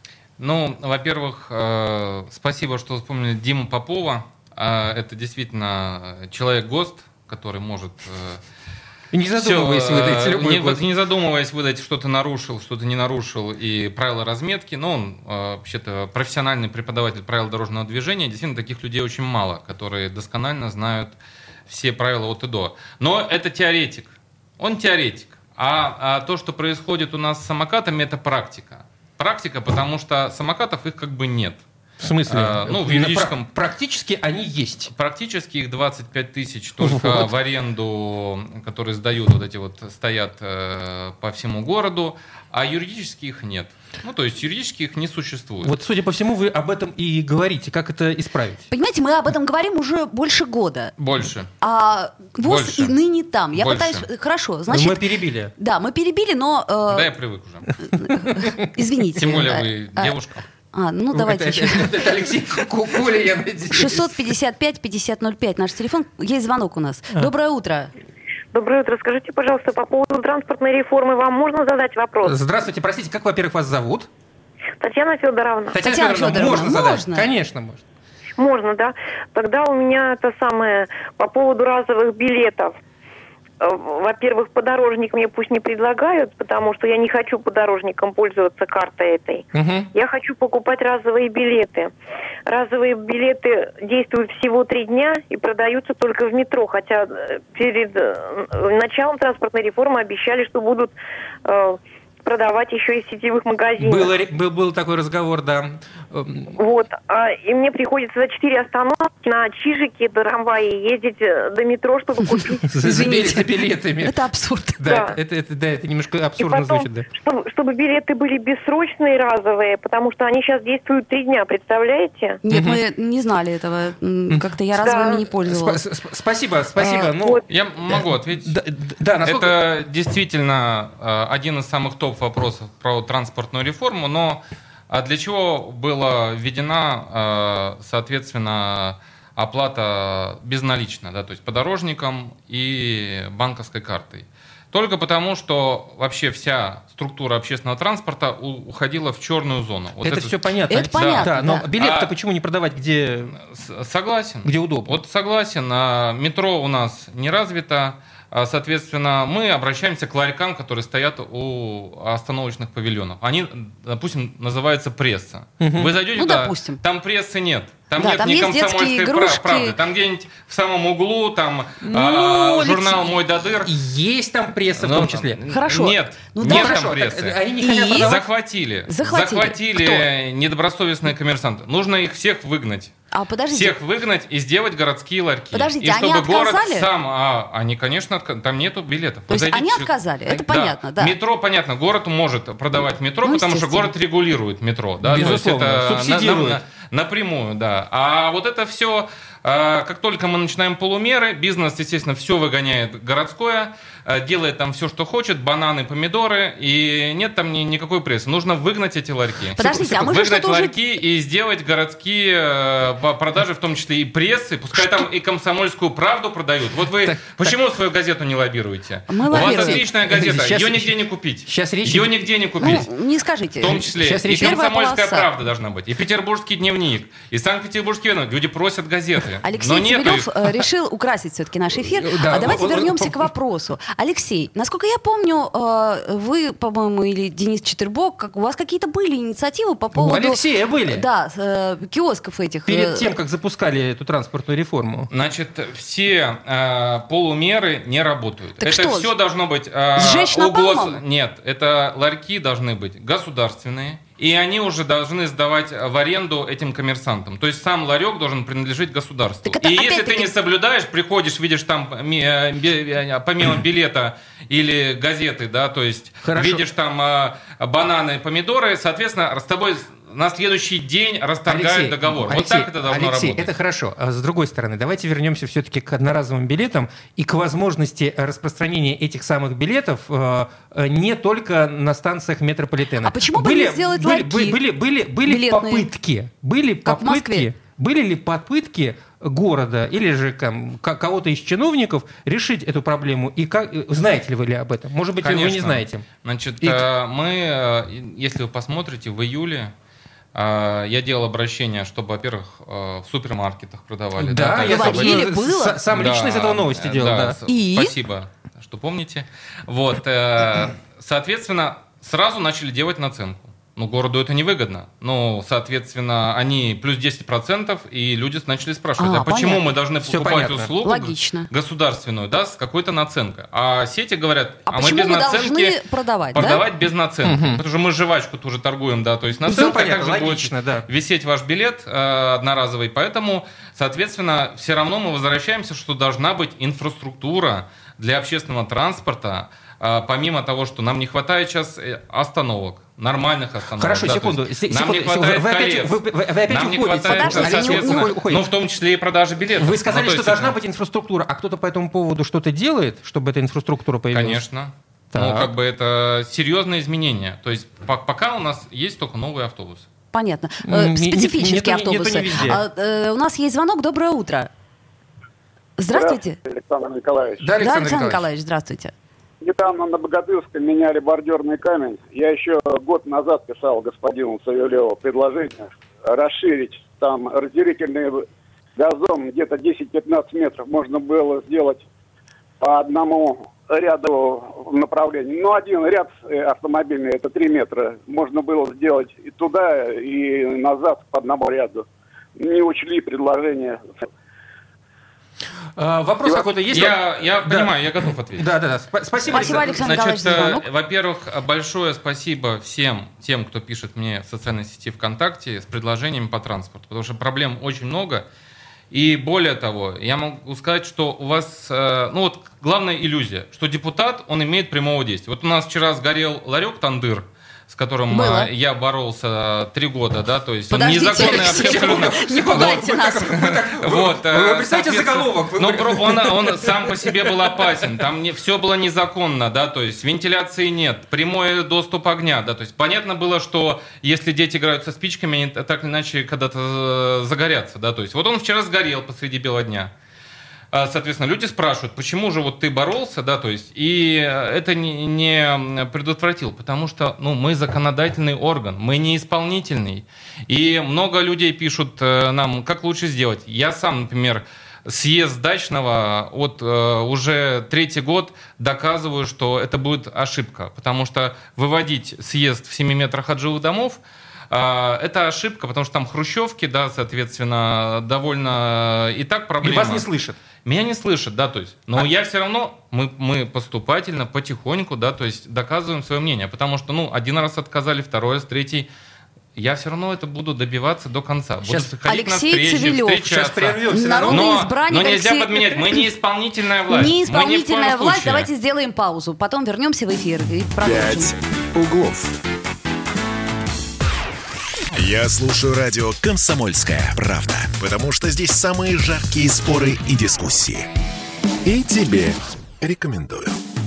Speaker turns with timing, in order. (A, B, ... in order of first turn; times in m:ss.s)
0:00.4-0:08.4 A
0:09.1-0:10.8 B
0:09.4-0:21.2 A
0:21.7-0:31.6 A
0:32.0-0:34.9 B
0:32.3-0:33.5 A
0:34.9-0:45.8 A
0:36.8-0:37.3 B
0:45.6-0:48.7 B
0:48.7-0:50.9 C
0:51.0-0:51.5 A
0:51.6-0:57.1 C
0:52.4-0:53.0 A
0:53.6-0:54.1 A
0:54.7-0:55.5 B
0:56.9-0:57.7 A
0:57.8-1:00.2 C
0:58.1-0:58.5 B
0:59.2-1:00.4 A
1:00.7-1:02.0 C
1:01.1-1:04.3 B
1:03.7-1:07.9 C
1:08.5-1:12.4 D
1:12.2-1:14.1 B
1:14.8-1:15.8 D
1:15.7-1:17.8 B
1:15.8-1:17.3 C
1:18.4-1:22.8 D
1:23.6-1:31.9 D
1:29.5-1:29.9 B
1:32.5-1:44.1 D
1:43.8-1:46.6 B
1:46.6-1:52.8 D
1:52.7-1:54.2 B
1:52.8-1:54.8 C
1:54.8-1:57.0 B
1:54.9-1:55.2 D
1:56.4-2:02.4 D
2:02.4-2:05.8 C
2:02.5-2:02.8 B
2:04.8-2:05.2 D
2:05.4-2:09.6 B
2:06.8-2:07.1 C
2:07.5-2:08.6 A
2:09.2-2:30.4 A
2:30.0-2:33.4 B
2:30.7-2:31.7 C
2:30.9-2:32.1 A
2:33.3-2:53.7 A
2:34.4-2:35.0 B
2:45.6-2:46.0 B
2:46.1-2:46.8 C
2:48.0-2:49.8 C
2:51.8-2:52.7 B
2:52.5-2:52.9 C
2:53.6-2:55.4 B
2:54.8-3:02.9 A
2:55.5-2:56.9 C
2:56.4-2:58.2 B
2:57.6-2:58.2 C
2:58.9-3:00.0 C
3:03.1-3:03.8 C
3:03.5-3:42.9 A
3:05.5-3:06.9 C
3:09.3-3:11.2 C
3:13.2-3:13.9 C
3:15.0-3:16.6 B
3:29.6-3:30.8 C
3:34.8-3:35.0 B
3:37.0-3:37.6 B
3:39.1-3:39.8 C
3:39.3-3:41.0 B
3:41.5-3:42.8 B
3:42.6-3:45.3 C
3:43.6-3:50.6 A
3:43.7-3:44.6 B
3:49.4-4:03.1 C
3:51.8-3:53.3 B
4:00.0-4:01.0 B
4:02.7-4:05.1 B
4:05.1-4:33.5 A
4:08.6-4:09.1 C
4:10.0-4:11.0 C
4:19.4-4:20.3 C
4:26.2-4:26.6 B
4:31.5-4:56.0 B
4:43.0-4:44.6 C
4:45.2-4:45.9 C
4:46.8-4:47.5 C
4:55.2-4:59.7 A
4:56.6-4:56.9 B
5:00.3-5:05.3 A
5:04.2-5:07.4 B
5:04.6-5:05.8 C
5:05.9-5:25.8 A
5:07.5-5:07.9 C
5:19.0-5:19.6 C
5:20.0-5:20.7 B
5:20.8-5:21.5 C
5:24.7-5:26.6 C
5:26.3-5:50.6 A
5:27.2-5:27.6 B
5:29.4-5:30.9 B
5:43.8-5:48.5 B
5:47.1-5:48.1 C
5:49.6-5:54.4 B
5:54.1-5:59.9 A
5:55.1-5:55.5 B
6:00.1-6:04.5 C
6:00.6-6:02.6 B
6:05.8-6:06.4 C
6:05.9-6:07.5 E
6:07.4-6:08.2 B
6:07.6-6:08.9 C
6:09.4-6:18.2 E
6:18.8-6:21.9 E
6:22.6-6:34.1 E
6:35.8-6:39.9 B
6:36.7-6:38.5 A
6:39.3-6:40.6 C
6:39.3-6:48.2 A
6:48.9-7:19.9 A
6:58.1-6:58.5 C
7:00.7-7:03.4 C
7:01.0-7:07.5 B
7:20.7-7:50.0 A
7:49.6-7:50.4 B
7:50.6-7:58.9 A
7:59.6-8:08.5 A
8:02.0-8:03.3 C
8:03.2-8:04.6 B
8:03.9-8:06.0 C
8:06.9-8:11.3 C
8:10.8-8:12.4 F
8:14.9-8:20.9 F
8:21.6-8:23.6 F